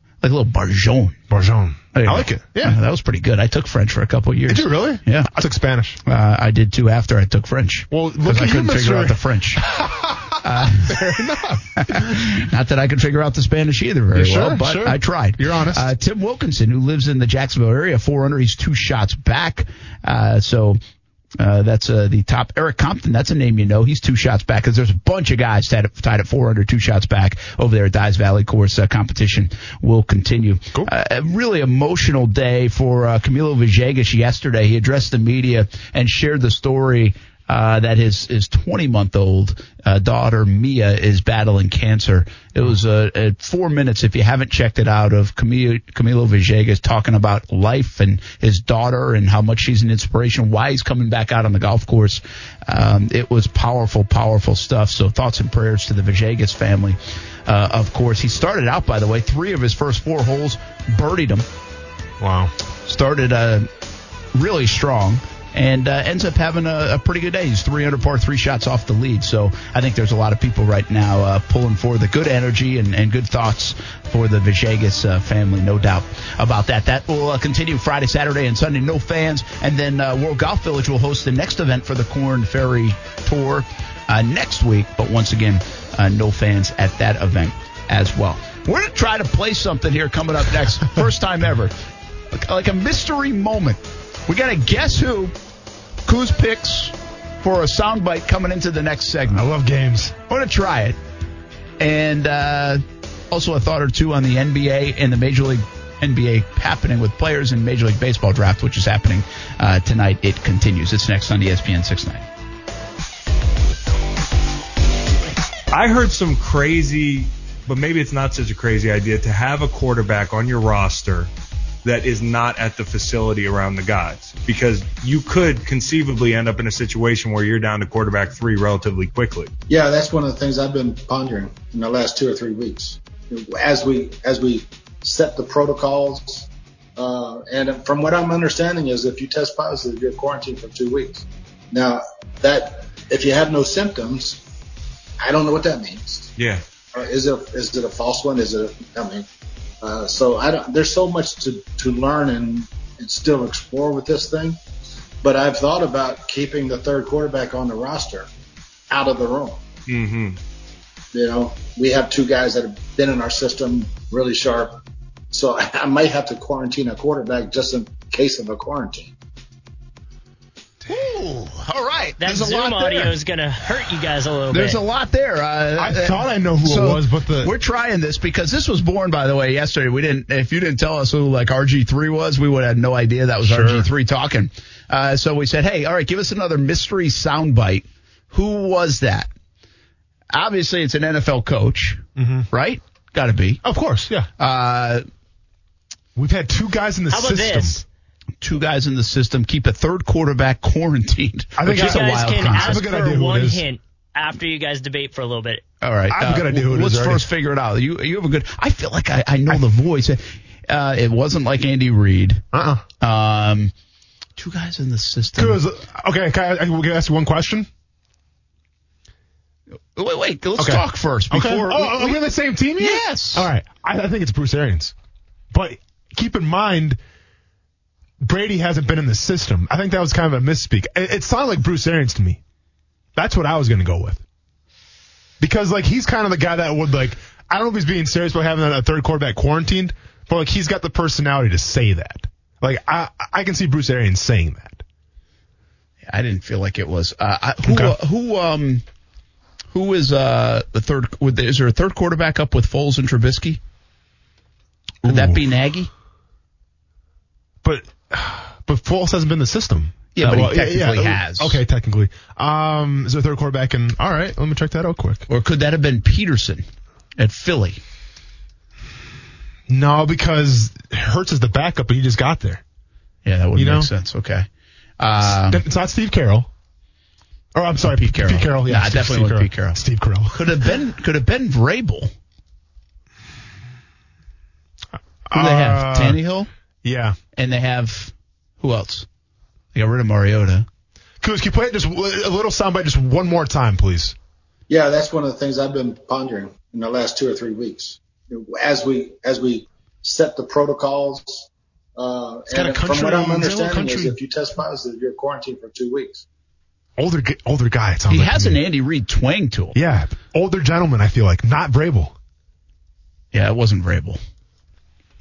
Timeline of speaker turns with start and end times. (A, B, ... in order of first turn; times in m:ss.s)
0:00.2-0:01.2 A
0:01.3-0:02.8 B
0:01.9-0:05.3 A
0:04.5-0:06.0 B
0:06.1-0:09.6 A
0:07.9-0:12.2 B
0:10.4-0:11.0 A
0:11.8-0:20.8 A
0:14.1-0:15.9 B
0:21.4-1:01.4 A
1:02.2-1:02.5 B
1:02.9-1:03.7 A
1:04.3-1:31.7 A
1:32.3-1:35.3 A
1:36.1-1:39.4 A
1:39.3-1:40.2 B
1:40.3-1:41.0 A
1:41.8-1:52.2 A
1:55.7-2:01.3 C
2:01.8-2:09.5 C
2:09.7-2:24.4 D
2:25.2-2:26.3 D
2:26.4-2:26.6 C
2:27.0-2:29.3 D
2:29.8-2:34.6 D
2:35.2-2:38.3 D
2:38.9-2:39.6 D
2:39.9-2:40.4 C
2:41.1-2:44.8 D
2:45.3-2:49.1 D
2:50.9-2:53.2 A
2:52.2-2:54.8 E
2:54.5-3:09.3 A
2:55.8-2:57.5 B
3:03.4-3:03.9 B
3:10.3-3:13.6 A
3:12.2-3:12.5 B
3:13.6-3:14.3 B
3:14.4-3:15.0 A
3:16.2-3:17.8 B
3:17.1-3:17.8 E
3:18.4-3:22.8 A
3:21.6-3:23.6 B
3:21.7-3:25.6 E
3:25.8-3:32.4 A
3:26.1-3:27.2 B
3:32.5-3:32.8 B
3:33.0-3:33.7 A
3:34.4-3:35.6 A
3:35.4-3:37.7 B
3:40.0-3:42.3 A
3:40.6-3:44.9 B
3:42.8-3:43.5 A
3:45.5-3:47.0 B
3:48.2-3:52.4 B
3:53.2-3:54.2 B
3:55.4-4:04.8 B
4:06.1-4:08.8 A
4:07.6-4:08.0 B
4:09.7-4:13.6 A
4:15.0-4:15.9 A
4:15.0-4:15.4 B
4:17.6-4:25.3 B
4:20.2-4:21.6 A
4:25.3-4:26.6 A
4:27.2-4:27.8 A
4:29.7-4:32.6 B
4:33.3-4:34.5 A
4:33.6-4:33.9 B
4:35.0-4:35.6 A
4:35.2-4:36.5 B
4:37.6-4:40.7 B
4:37.8-4:42.1 A
4:45.3-4:46.2 B
4:45.3-4:46.5 A
4:46.8-4:47.2 B
4:47.4-4:49.1 A
4:49.7-4:50.7 A
4:51.2-4:54.2 B
4:54.7-5:06.2 D
5:02.5-5:04.2 B
5:07.0-5:08.6 B
5:08.1-5:09.8 A
5:09.8-5:12.1 B
5:13.3-5:14.2 A